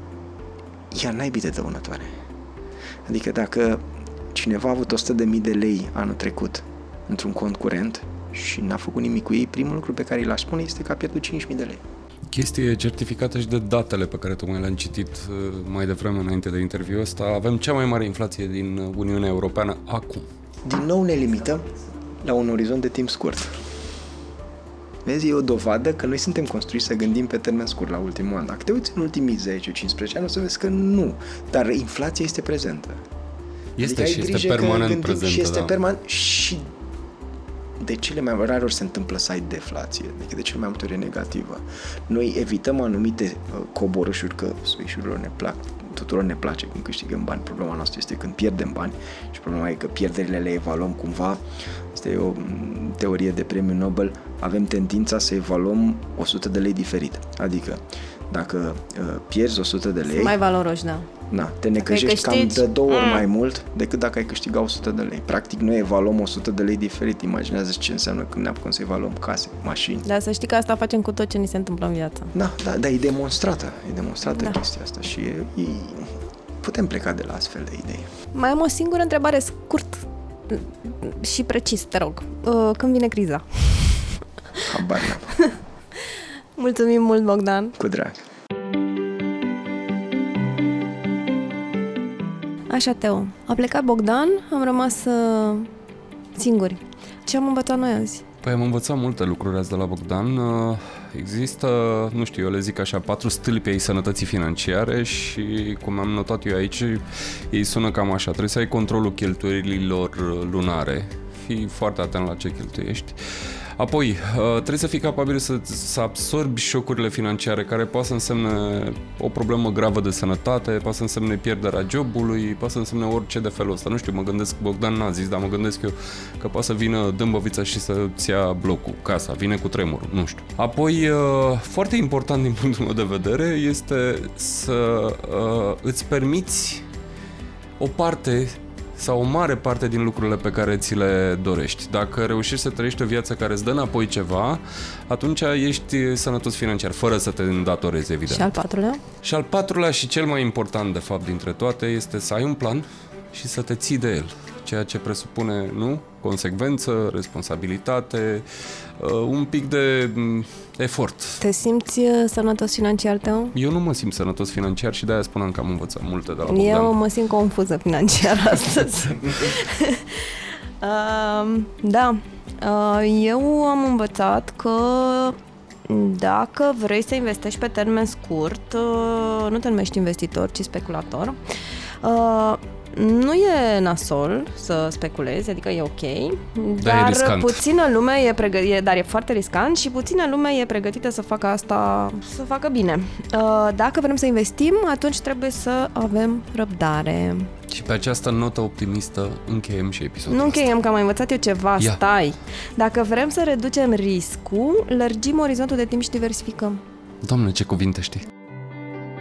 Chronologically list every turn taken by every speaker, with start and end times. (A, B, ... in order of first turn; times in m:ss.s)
0:00.9-0:02.2 A
0:03.0-0:11.8 A
0:12.3-0:20.3 B
0:20.6-0:21.6 A
0:22.2-0:23.5 A
0:25.0-0:33.0 A
0:33.8-0:35.7 B
0:33.8-0:36.7 A
0:37.8-1:00.4 A
1:00.1-1:01.1 C
1:01.3-1:10.0 A
1:01.8-1:03.2 C
1:10.0-1:12.3 C
1:12.3-1:18.1 A
1:18.3-1:24.1 C
1:24.7-1:25.3 A
1:26.6-1:27.8 C
1:27.8-1:28.2 A
1:32.7-1:35.7 C
1:36.3-1:38.2 C
1:38.4-1:53.2 B
1:53.8-2:16.8 B
2:17.8-2:28.5 B
2:28.3-2:29.0 C
2:29.2-2:38.4 B
2:39.0-2:41.4 B
2:41.4-2:43.5 C
2:43.5-2:47.0 B
2:46.4-3:01.4 C
3:02.0-3:17.5 C
3:06.8-3:07.6 B
3:17.7-3:20.7 B
3:20.3-3:26.8 C
3:27.2-3:28.2 B